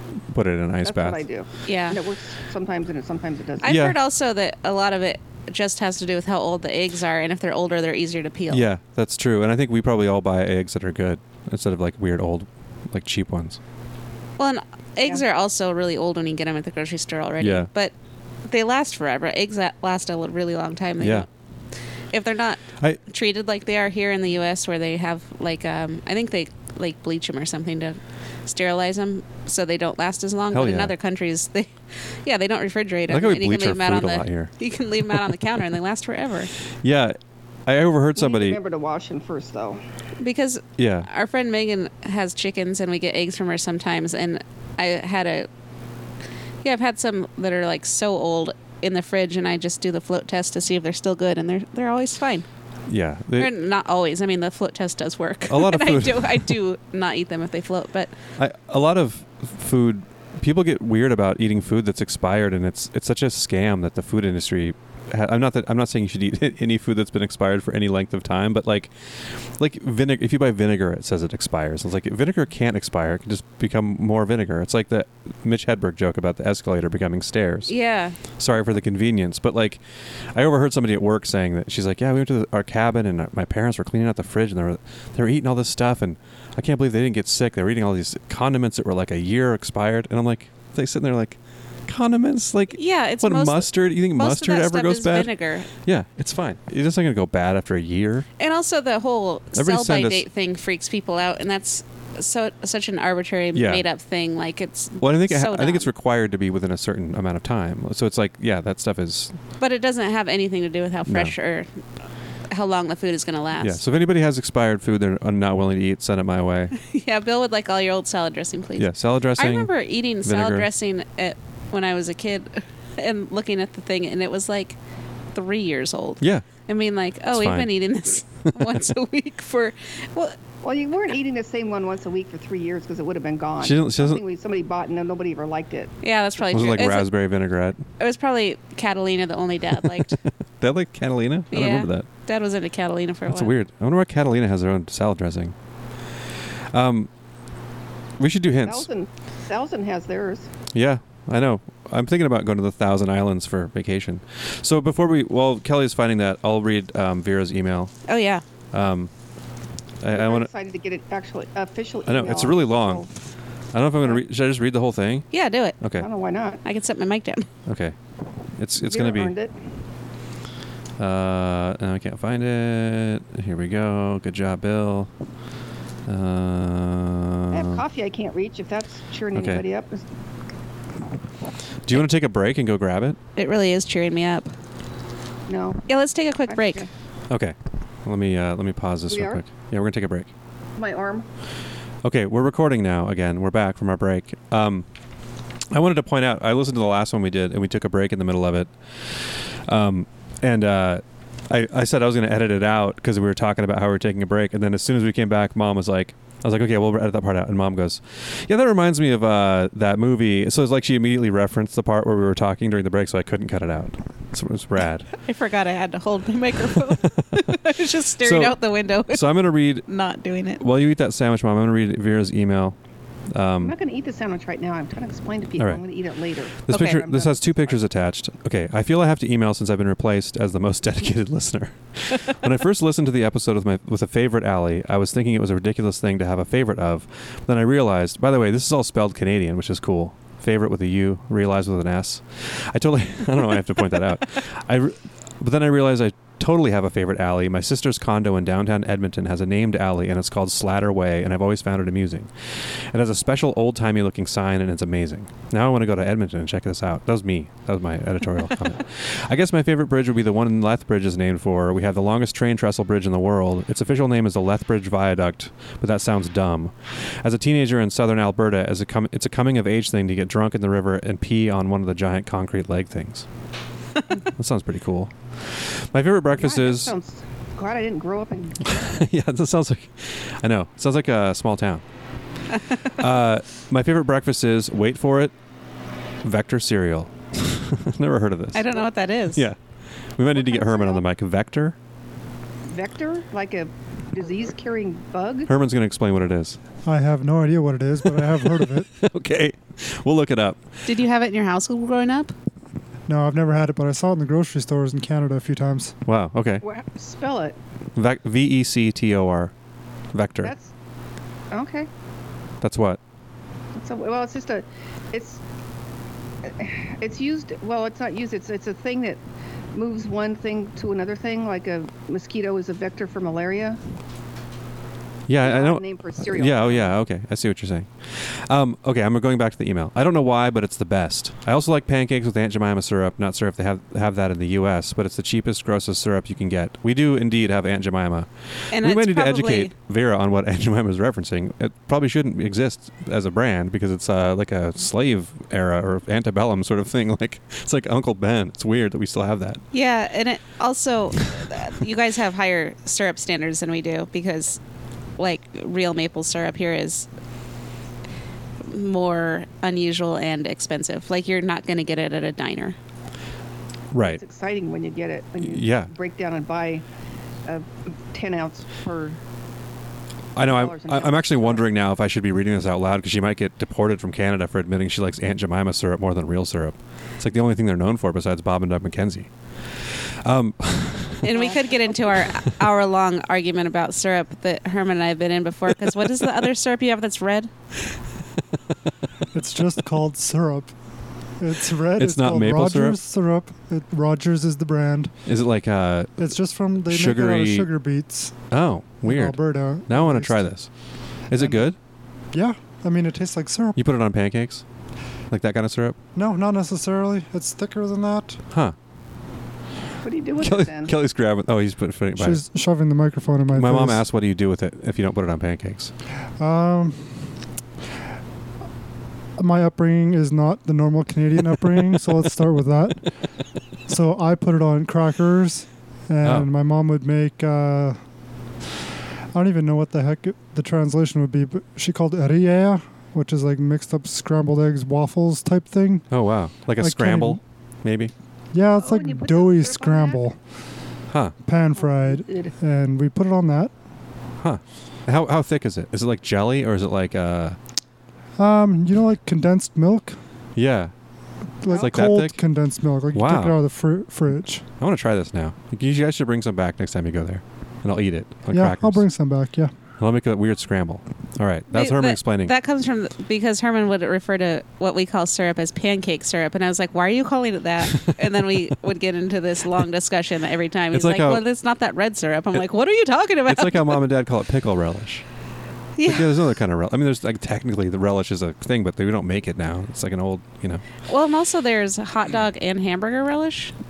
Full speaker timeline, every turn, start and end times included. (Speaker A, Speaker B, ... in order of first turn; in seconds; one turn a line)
Speaker A: 0.3-1.2
Speaker B: 0.8-3.8
Speaker C: 1.6-2.0
Speaker C: 3.6-8.7
Speaker A: 3.6-4.0
Speaker A: 8.5-13.6
Speaker C: 14.4-17.9
Speaker A: 17.4-17.7
Speaker C: 18.5-21.2
Speaker A: 21.0-21.2
Speaker C: 22.1-31.7
Speaker A: 30.5-30.9
Speaker C: 32.2-36.5
Speaker A: 33.1-34.5
Speaker A: 36.8-38.6
Speaker B: 38.1-39.8
Speaker C: 40.2-45.5
Speaker A: 40.8-41.1
Speaker C: 46.6-52.5
Speaker A: 52.9-53.5
Speaker C: 53.4-58.1
Speaker A: 55.5-56.5
Speaker A: 58.4-77.7
Speaker C: 77.7-78.2
Speaker A: 78.4-79.8
Speaker A: 80.3-98.2
Speaker C: 92.7-95.7
Speaker C: 98.4-105.9
Speaker A: 99.5-100.2
Speaker A: 103.5-103.8
Speaker A: 105.0-109.3
Speaker C: 109.6-111.7
Speaker A: 111.1-111.3
Speaker C: 112.5-113.8
Speaker A: 113.6-116.7
Speaker C: 116.8-124.8
Speaker A: 118.8-119.7
Speaker A: 120.2-120.7
Speaker C: 125.3-130.4
Speaker A: 126.2-126.5
Speaker A: 127.3-127.7
Speaker A: 128.4-128.8
Speaker B: 130.6-135.9
Speaker A: 133.6-134.2
Speaker C: 136.0-137.1
Speaker A: 136.5-137.8
Speaker C: 138.0-140.2
Speaker A: 139.8-142.1
Speaker C: 141.5-143.5
Speaker A: 143.3-145.5
Speaker A: 146.7-147.1
Speaker A: 148.2-148.9
Speaker B: 148.6-150.5
Speaker A: 150.7-157.9
Speaker C: 158.1-158.4
Speaker A: 158.7-159.1
Speaker A: 160.0-160.5
Speaker B: 160.1-163.1
Speaker A: 162.1-163.1
Speaker A: 163.7-165.2
Speaker C: 165.3-165.8
Speaker A: 165.8-166.1
Speaker B: 166.0-166.6
Speaker C: 166.6-167.5
Speaker A: 167.7-168.0
Speaker A: 168.6-169.3
Speaker B: 168.8-169.5
Speaker A: 171.0-175.1
Speaker A: 176.1-177.8
Speaker B: 177.5-180.1
Speaker A: 179.3-179.6
Speaker A: 181.8-183.2
Speaker C: 183.3-184.5
Speaker B: 185.5-185.9
Speaker C: 185.9-186.8
Speaker B: 186.5-186.9
Speaker A: 187.3-190.3
Speaker B: 189.1-189.4
Speaker B: 190.8-191.3
Speaker A: 192.0-194.8
Speaker A: 195.7-215.1
Speaker C: 215.2-220.6
Speaker A: 218.2-218.6
Speaker A: 219.1-219.8
Speaker A: 220.6-222.8
Speaker A: 223.3-223.7
Speaker B: 223.6-227.7
Speaker A: 226.7-252.3
Speaker C: 226.7-227.0
Speaker A: 252.9-273.2
Speaker A: 274.2-276.9
Speaker B: 276.3-279.1
Speaker A: 278.6-281.8
Speaker A: 282.9-285.3
Speaker A: 286.2-288.8
Speaker C: 288.5-289.4
Speaker A: 289.3-289.6
Speaker A: 290.1-291.8
Speaker B: 290.3-291.0
Speaker B: 292.6-295.5
Speaker A: 295.5-296.6
Speaker D: 296.8-298.9
Speaker A: 298.1-300.6
Speaker C: 300.9-302.3
Speaker D: 303.1-305.9
Speaker A: 306.1-306.6
Speaker B: 306.6-307.6
Speaker A: 307.9-309.5
Speaker A: 310.1-310.5
Speaker B: 310.4-310.7
Speaker B: 311.5-311.9
Speaker A: 312.6-313.0
Speaker B: 313.8-315.4
Speaker B: 316.4-319.2
Speaker B: 319.7-323.8
Speaker A: 325.3-349.6
Speaker B: 325.4-326.9
Speaker C: 338.7-339.7
Speaker C: 349.7-354.6
Speaker C: 355.2-357.1
Speaker C: 358.6-362.7
Speaker A: 363.9-364.2
Speaker B: 364.0-366.8
Speaker A: 365.4-365.9
Speaker B: 367.4-369.2
Speaker A: 370.4-379.3
Speaker B: 370.4-371.6
Speaker A: 380.2-381.3
Speaker C: 381.2-387.5
Speaker B: 381.3-382.3
Speaker A: 385.9-386.2
Speaker D: 389.3-390.7
Speaker D: 391.4-395.1
Speaker A: 392.0-393.0
Speaker A: 395.2-396.2
Speaker D: 396.2-398.4
Speaker A: 396.9-397.7
Speaker A: 398.5-400.7
Speaker D: 399.0-400.5
Speaker A: 401.3-401.8
Speaker D: 401.4-401.6
Speaker D: 402.3-403.8
Speaker A: 403.8-404.6
Speaker A: 405.3-406.0
Speaker D: 406.1-408.4
Speaker A: 408.5-408.8
Speaker B: 410.0-410.9
Speaker A: 410.4-412.4
Speaker D: 412.2-414.0
Speaker A: 413.5-415.9
Speaker D: 416.4-417.1
Speaker D: 419.4-423.1
Speaker D: 423.9-428.0
Speaker A: 426.2-426.5
Speaker D: 429.3-436.1
Speaker A: 436.1-438.1
Speaker D: 436.8-437.4
Speaker D: 438.5-440.4
Speaker B: 438.8-440.2
Speaker A: 441.1-441.3
Speaker D: 441.4-443.7
Speaker B: 441.7-442.5
Speaker A: 444.4-447.6
Speaker D: 448.4-450.2
Speaker A: 450.6-450.9
Speaker D: 451.6-454.6
Speaker B: 451.7-452.0
Speaker A: 451.7-452.4
Speaker A: 453.1-453.6
Speaker A: 454.8-459.0
Speaker D: 458.5-459.7
Speaker A: 460.0-462.5
Speaker C: 461.7-474.0
Speaker A: 467.9-468.4
Speaker A: 470.9-471.4
Speaker A: 473.5-475.2
Speaker C: 476.0-476.5
Speaker A: 476.0-480.8
Speaker C: 481.1-483.7